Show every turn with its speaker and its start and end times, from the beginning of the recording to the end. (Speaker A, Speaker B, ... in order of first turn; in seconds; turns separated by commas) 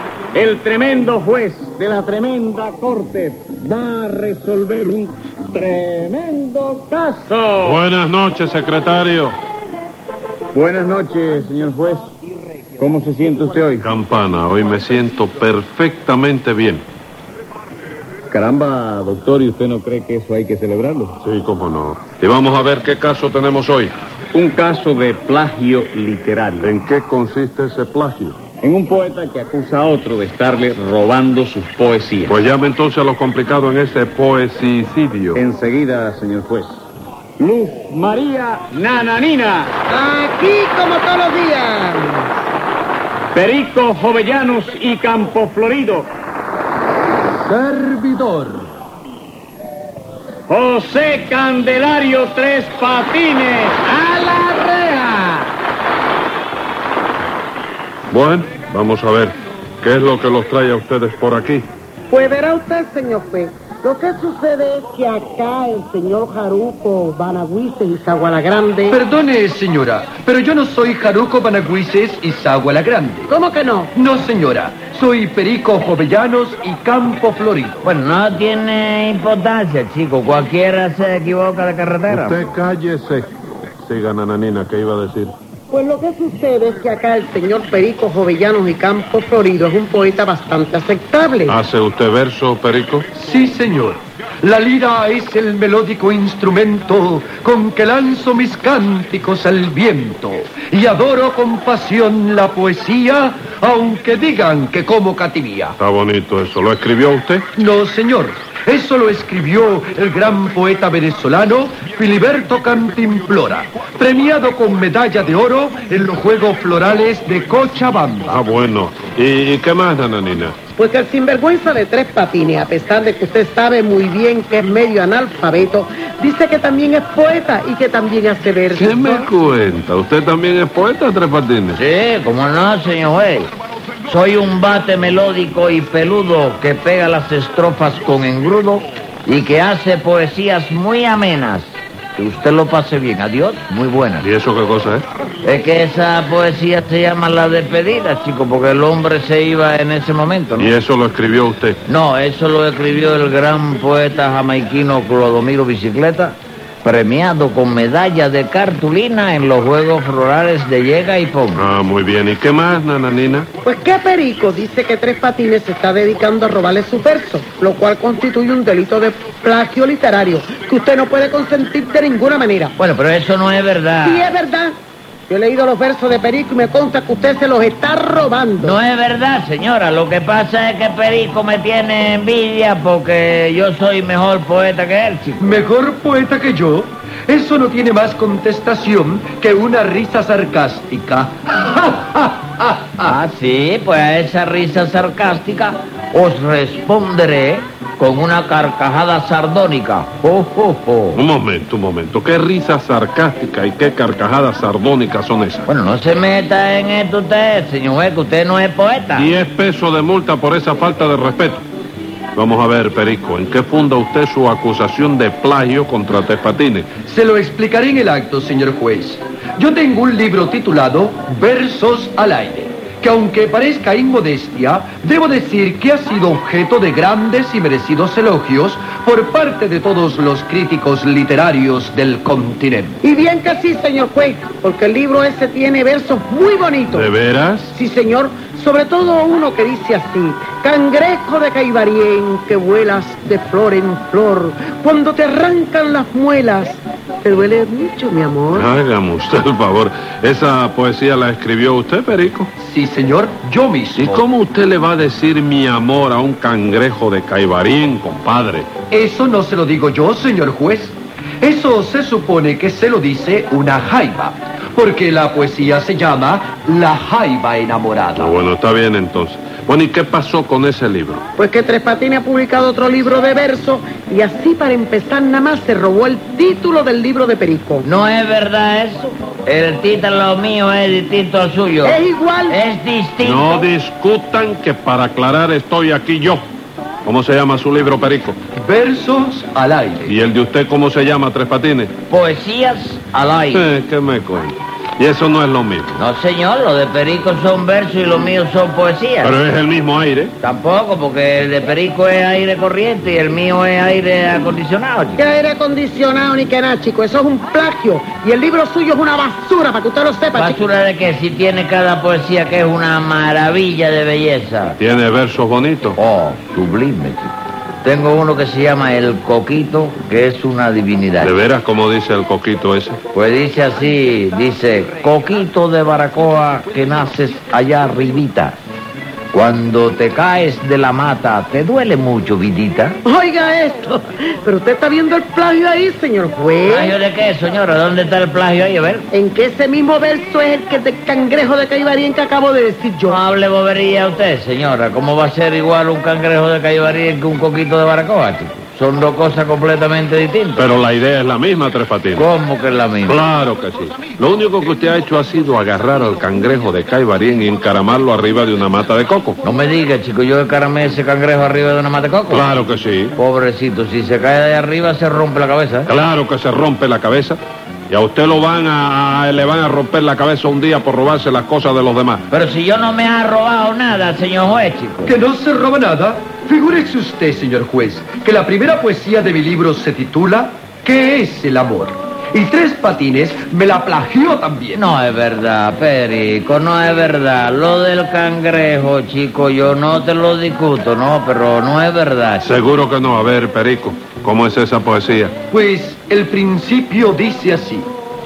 Speaker A: 0.3-7.8, Speaker B: 7.6-9.4, Speaker A: 10.5-13.9, Speaker B: 13.8-16.8, Speaker A: 18.3-21.2, Speaker B: 21.2-23.9, Speaker A: 24.3-26.7, Speaker B: 26.6-28.4, Speaker A: 28.6-32.5, Speaker B: 32.2-35.4, Speaker A: 35.4-36.8, Speaker A: 37.4-39.7, Speaker C: 39.9-42.3, Speaker A: 43.3-46.1, Speaker D: 47.3-48.7, Speaker A: 50.5-54.0, Speaker B: 58.1-61.7, Speaker C: 62.1-69.0, Speaker D: 68.9-73.4, Speaker C: 73.3-73.9, Speaker D: 73.9-77.9, Speaker E: 77.8-82.5, Speaker B: 82.1-85.3, Speaker C: 85.7-91.6, Speaker B: 91.5-93.1, Speaker D: 93.1-105.8, Speaker B: 105.8-107.5, Speaker D: 107.6-118.4, Speaker B: 118.3-120.6, Speaker C: 120.8-129.3, Speaker B: 128.7-131.8, Speaker E: 131.8-133.5, Speaker E: 134.1-144.3, Speaker B: 144.2-145.1, Speaker E: 145.4-150.7, Speaker B: 150.6-151.8, Speaker E: 151.9-161.6, Speaker B: 161.6-163.5, Speaker C: 163.7-172.7, Speaker E: 172.8-174.3, Speaker C: 174.0-174.7, Speaker C: 175.3-178.8, Speaker E: 178.6-185.6, Speaker D: 185.4-193.1, Speaker E: 193.0-201.2, Speaker B: 201.1-205.7, Speaker E: 205.7-209.3, Speaker B: 209.2-211.6, Speaker B: 212.4-217.0, Speaker D: 217.0-233.0, Speaker C: 233.0-237.1, Speaker B: 236.9-237.7, Speaker C: 237.7-248.7, Speaker B: 248.5-252.5, Speaker D: 252.6-254.2, Speaker B: 254.0-258.7, Speaker D: 258.9-268.3, Speaker B: 268.2-271.2, Speaker C: 271.4-277.9, Speaker E: 277.8-283.6, Speaker C: 281.8-282.6, Speaker B: 283.2-286.4, Speaker B: 287.1-288.4, Speaker D: 288.6-290.2, Speaker B: 290.1-291.9, Speaker E: 292.1-293.6, Speaker B: 293.5-296.0, Speaker E: 296.0-299.4, Speaker B: 299.2-300.3, Speaker E: 300.4-305.2, Speaker C: 305.2-310.6, Speaker E: 310.4-314.8, Speaker B: 314.8-316.0, Speaker E: 316.0-317.3, Speaker E: 317.8-321.3, Speaker B: 321.2-323.0, Speaker E: 323.1-328.6, Speaker E: 329.3-333.0, Speaker C: 333.1-337.0, Speaker E: 336.6-339.1, Speaker C: 339.1-343.2, Speaker E: 343.1-350.6, Speaker B: 350.6-352.3, Speaker E: 352.1-353.2, Speaker B: 353.1-359.4, Speaker E: 359.4-362.5, Speaker B: 362.3-363.1, Speaker E: 363.2-365.9, Speaker B: 365.9-372.2, Speaker E: 372.3-375.1, Speaker D: 375.1-384.8, Speaker E: 384.8-392.5, Speaker B: 392.4-395.4, Speaker D: 395.5-397.9